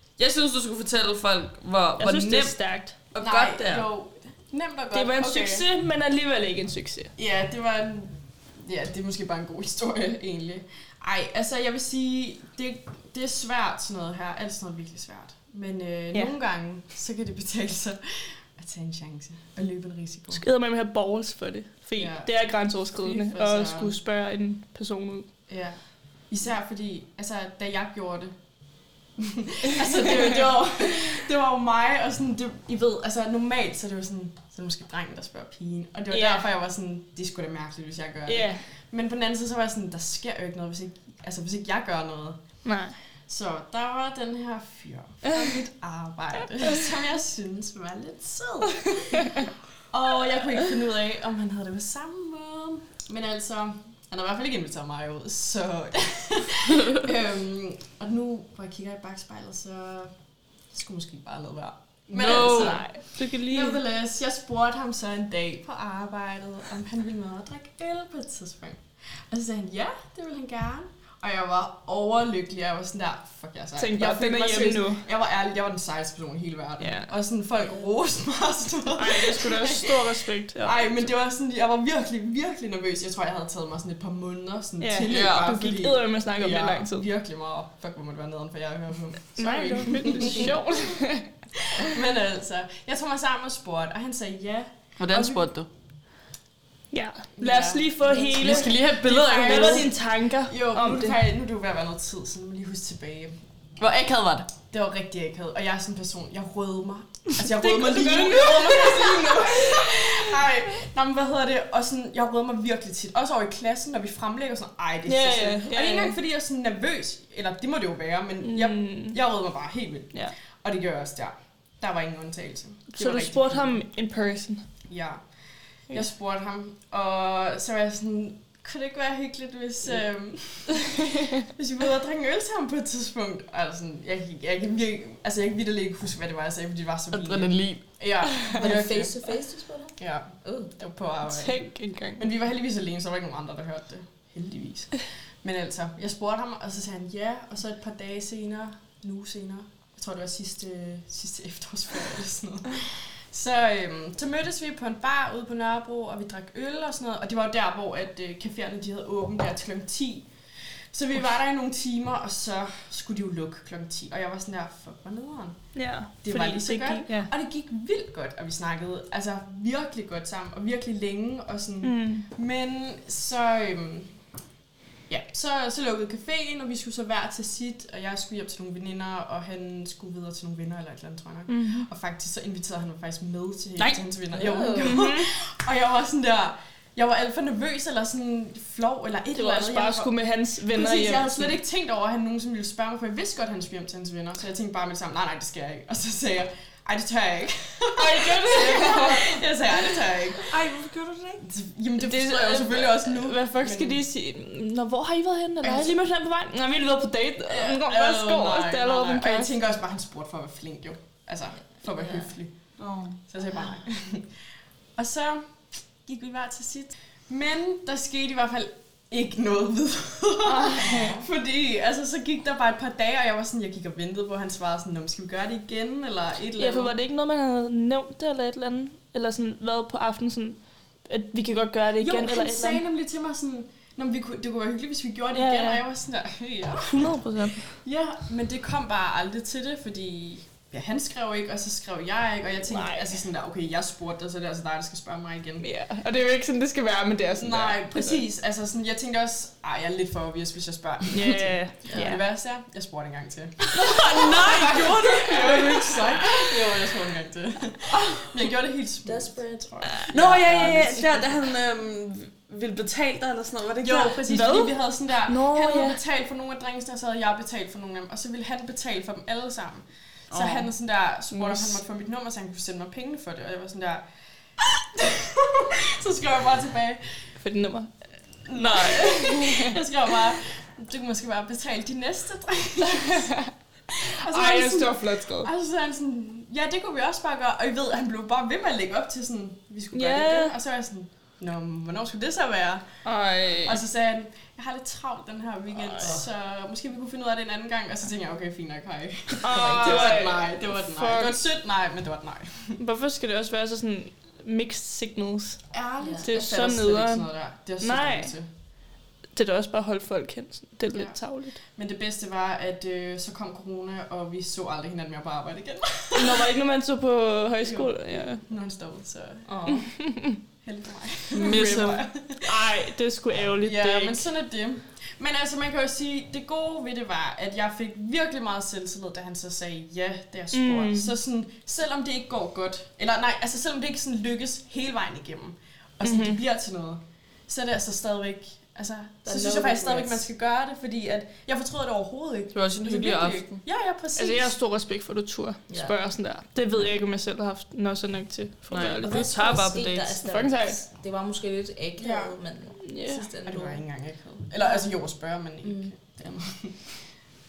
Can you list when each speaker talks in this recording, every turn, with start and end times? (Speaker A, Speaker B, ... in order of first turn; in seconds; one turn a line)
Speaker A: 0.2-3.9
Speaker B: 2.0-2.9
Speaker C: 3.2-5.6
Speaker B: 4.9-7.1
Speaker C: 7.2-20.4
Speaker B: 20.3-25.3
Speaker C: 22.0-22.4
Speaker C: 22.9-24.0
Speaker C: 25.5-28.4
Speaker C: 29.2-42.5
Speaker B: 36.1-36.5
Speaker B: 38.2-38.6
Speaker B: 42.6-43.0
Speaker C: 43.3-60.1
Speaker C: 60.7-90.6
Speaker A: 62.1-62.9
Speaker B: 62.2-63.8
Speaker B: 73.8-75.0
Speaker B: 76.8-77.1
Speaker D: 77.6-77.9
Speaker B: 78.9-81.1
Speaker B: 84.8-87.0
Speaker A: 85.1-85.5
Speaker B: 89.4-91.3
Speaker C: 91.7-95.4
Speaker A: 95.0-95.7
Speaker B: 96.9-101.2
Speaker C: 97.4-103.4
Speaker A: 98.3-99.9
Speaker A: 103.8-104.5
Speaker C: 104.6-123.8
Speaker B: 107.4-110.1
Speaker B: 115.0-116.2
Speaker B: 118.4-119.2
Speaker B: 122.9-124.6
Speaker C: 124.9-125.2
Speaker C: 125.9-139.3
Speaker A: 137.1-138.0
Speaker D: 138.6-140.7
Speaker C: 140.0-160.3
Speaker B: 141.3-142.2
Speaker C: 160.9-174.1
Speaker B: 165.7-167.3
Speaker B: 171.8-172.2
Speaker C: 175.1-190.2
Speaker B: 181.5-181.9
Speaker D: 184.3-185.0
Speaker B: 184.8-185.3
Speaker B: 189.3-191.6
Speaker C: 190.7-200.5
Speaker B: 197.9-199.8
Speaker A: 200.4-201.4
Speaker C: 201.4-204.0
Speaker B: 202.0-209.5
Speaker C: 205.6-206.0
Speaker C: 207.5-212.5
Speaker D: 211.9-212.3
Speaker A: 212.8-213.2
Speaker C: 213.3-214.3
Speaker C: 214.9-226.9
Speaker B: 220.4-221.2
Speaker D: 220.8-221.3
Speaker B: 226.6-232.8
Speaker C: 232.0-245.6
Speaker B: 235.3-235.8
Speaker B: 236.8-237.7
Speaker B: 242.6-243.2
Speaker B: 245.6-248.2
Speaker C: 247.4-261.1
Speaker B: 251.1-252.2
Speaker D: 251.8-252.2
Speaker A: 253.7-256.3
Speaker B: 254.0-255.2
Speaker D: 259.0-261.3
Speaker A: 260.1-264.2
Speaker C: 263.8-274.0
Speaker B: 264.2-266.0
Speaker A: 270.3-270.7
Speaker A: 271.3-271.8
Speaker C: 274.6-277.0
Speaker B: 277.4-277.9
Speaker C: 278.4-283.3
Speaker A: 278.5-279.2
Speaker B: 278.6-279.8
Speaker B: 282.9-285.5
Speaker C: 284.2-292.9
Speaker B: 289.9-290.6
Speaker A: 293.0-293.8
Speaker C: 293.5-302.8
Speaker D: 296.0-296.2
Speaker B: 299.4-301.4
Speaker D: 299.5-300.2
Speaker B: 302.8-305.7
Speaker C: 305.7-308.5
Speaker D: 306.0-306.3
Speaker B: 306.2-307.3
Speaker B: 307.8-308.3
Speaker B: 309.3-311.6
Speaker C: 310.9-316.5
Speaker B: 316.1-318.4
Speaker C: 317.6-319.5
Speaker D: 319.4-319.9
Speaker B: 319.7-320.4
Speaker C: 320.6-322.6
Speaker A: 321.3-322.0
Speaker B: 321.4-324.2
Speaker C: 323.6-344.5
Speaker B: 330.5-331.1
Speaker B: 336.0-336.4
Speaker D: 339.2-340.3
Speaker A: 342.5-343.6
Speaker B: 344.1-349.7
Speaker D: 345.7-345.9
Speaker A: 348.7-350.2
Speaker D: 349.0-353.8
Speaker B: 350.2-350.8
Speaker C: 352.0-352.4
Speaker B: 352.8-353.3
Speaker C: 353.3-356.9
Speaker D: 355.6-355.9